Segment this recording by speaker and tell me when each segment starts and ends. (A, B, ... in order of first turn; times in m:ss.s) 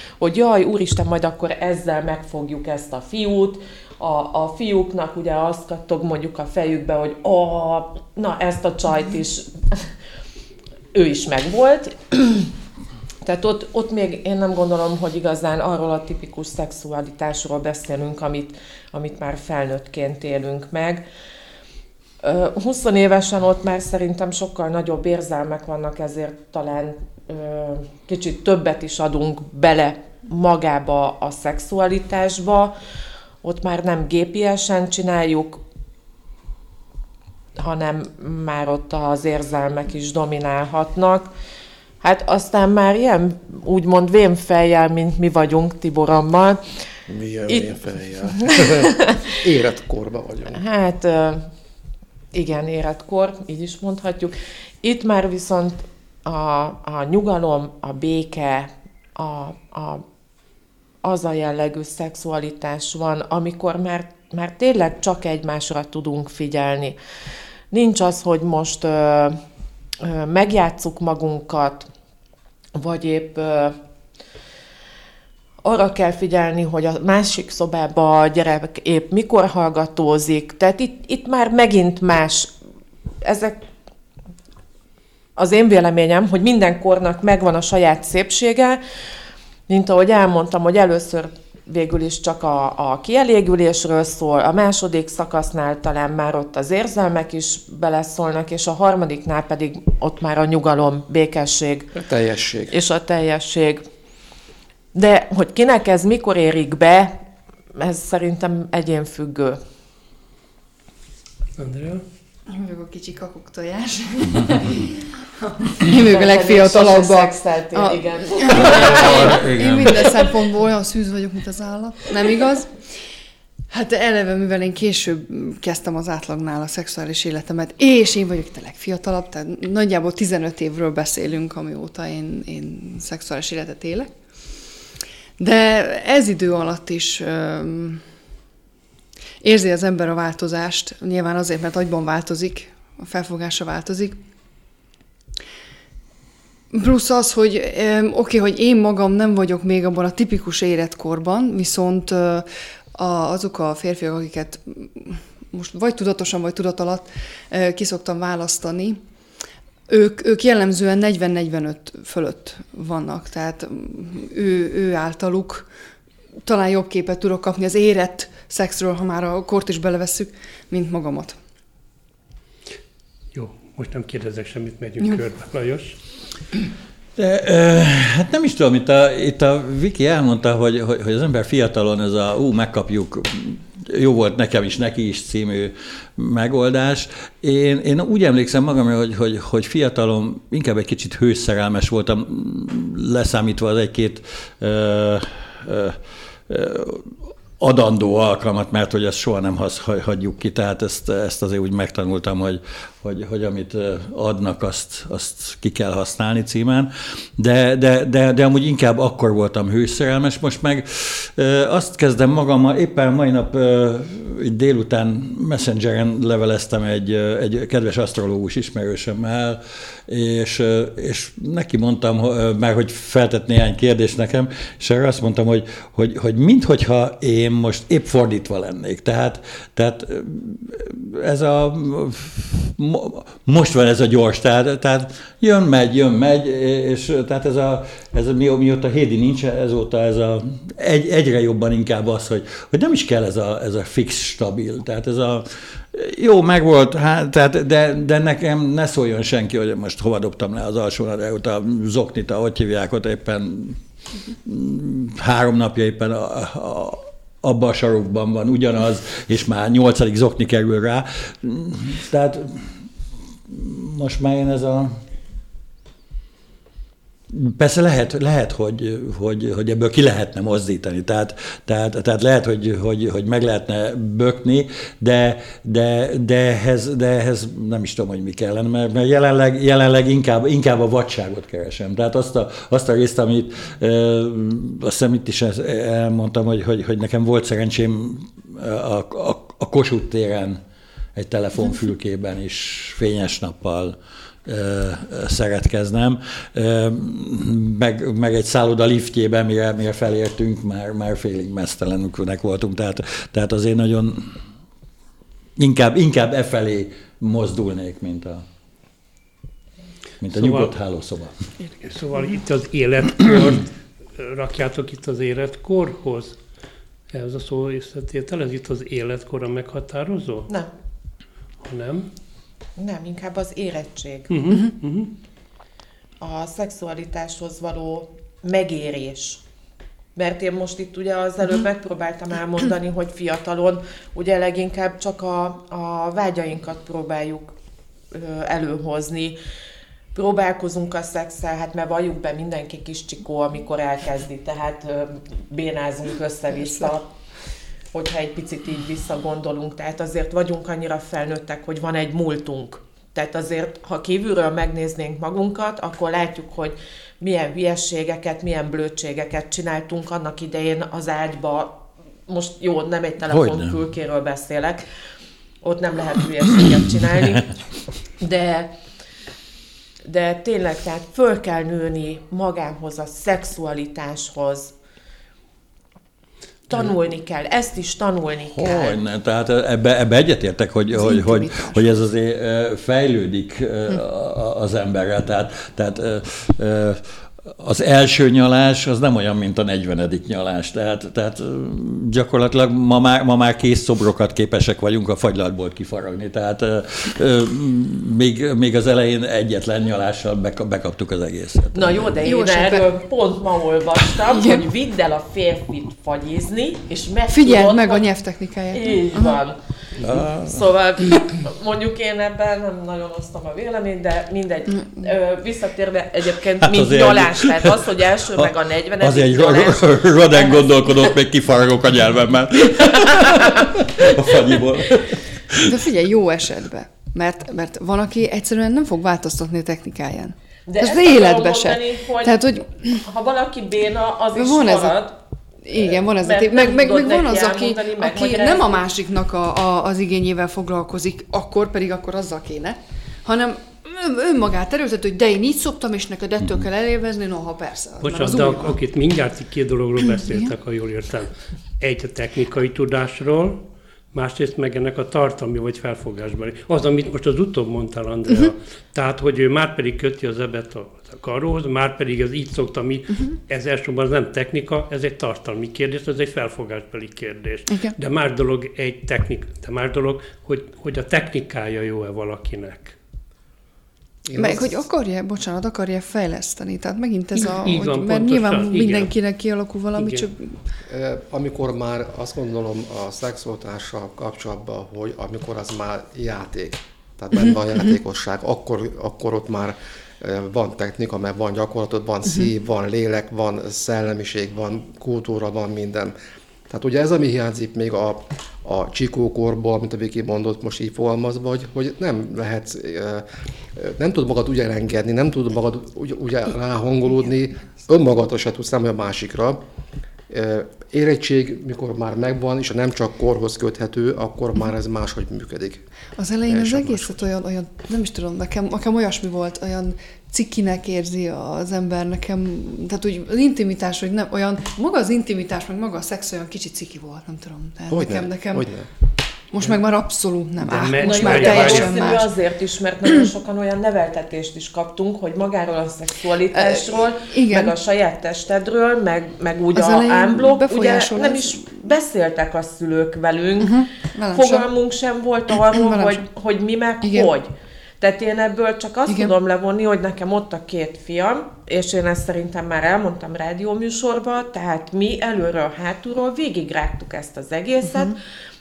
0:00.2-0:09.9 A
0:10.9-0:12.5 A
0:13.2-0:21.0 A
0:22.2-0:32.8 A
0:33.4-0:35.6 A
0:37.6-0:41.3 A
0:42.0-0:46.7 A
0:47.1-0:50.6 B
0:47.5-0:47.8 A
0:48.4-0:49.3 A
0:50.5-0:51.5 A
0:52.3-1:00.0 A
1:01.0-1:07.0 A
1:07.7-1:09.4 A
1:10.0-1:11.9 A
1:12.8-1:13.8 A
1:15.6-1:22.5 A
1:23.2-1:23.6 A
1:25.4-1:28.8 A
1:29.7-1:42.0 A
1:42.0-1:42.7 B
1:42.7-1:43.9 A
1:44.9-1:47.2 A
1:47.7-1:49.6 A
1:51.6-1:52.0 C
1:52.5-2:02.8 D
1:56.0-1:59.4 A
1:58.5-2:00.3 E
2:03.7-2:14.1 D
2:15.4-2:18.0 D
2:19.4-2:24.2 D
2:26.7-2:39.0 D
2:39.9-2:45.7 D
2:46.4-2:51.4 D
2:53.3-2:56.0 C
2:57.2-4:13.8 E
4:14.4-4:22.8 E
4:23.5-4:25.0 E
4:27.3-4:50.6 E
4:51.2-5:04.4 E
5:05.6-5:08.4 E
5:10.2-5:11.3 E
5:10.3-5:10.7 C
5:11.8-5:16.4 C
5:17.1-5:20.5 C
5:21.6-5:22.1 C
5:22.8-5:24.4 A
5:24.3-5:25.1 C
5:26.2-5:29.4 A
5:30.2-5:37.5 A
5:38.1-5:39.4 A
5:40.2-5:47.1 A
5:47.9-6:04.8 A
6:03.3-6:03.8 E
6:05.6-6:07.5 A
6:08.2-6:08.8 A
6:10.0-6:14.7 A
6:16.7-6:19.0 A
6:18.5-6:42.1 E
6:20.9-6:22.1 D
6:41.7-6:48.0 A
6:42.2-6:42.9 D
6:44.4-6:44.6 D
6:47.3-6:49.4 D
6:48.7-6:49.6 A
6:50.0-6:50.6 E
6:50.1-7:00.8 A
6:56.6-7:05.8 E
7:02.8-7:04.1 A
7:05.6-7:13.0 D
7:10.7-7:15.2 A
7:14.4-7:15.0 D
7:15.7-7:28.7 D
7:15.7-7:18.8 A
7:28.0-7:33.6 C
7:30.2-7:30.5 D
7:34.1-7:53.0 C
7:47.7-7:47.9 D
7:54.2-7:54.9 B
7:54.4-8:00.6 D
7:57.4-7:59.1 C
8:00.0-8:00.3 C
8:00.9-8:16.1 B
8:16.7-8:29.6 B
8:30.3-8:35.8 B
8:36.2-8:48.7 D
8:36.5-8:37.2 B
8:47.9-8:48.9 B
8:49.5-8:52.3 D
8:50.6-8:52.0 C
8:51.0-9:18.2 A
8:56.5-8:57.7 D
8:59.7-9:01.8 D
9:03.6-9:04.7 D
9:05.7-9:06.2 D
9:07.0-9:07.3 D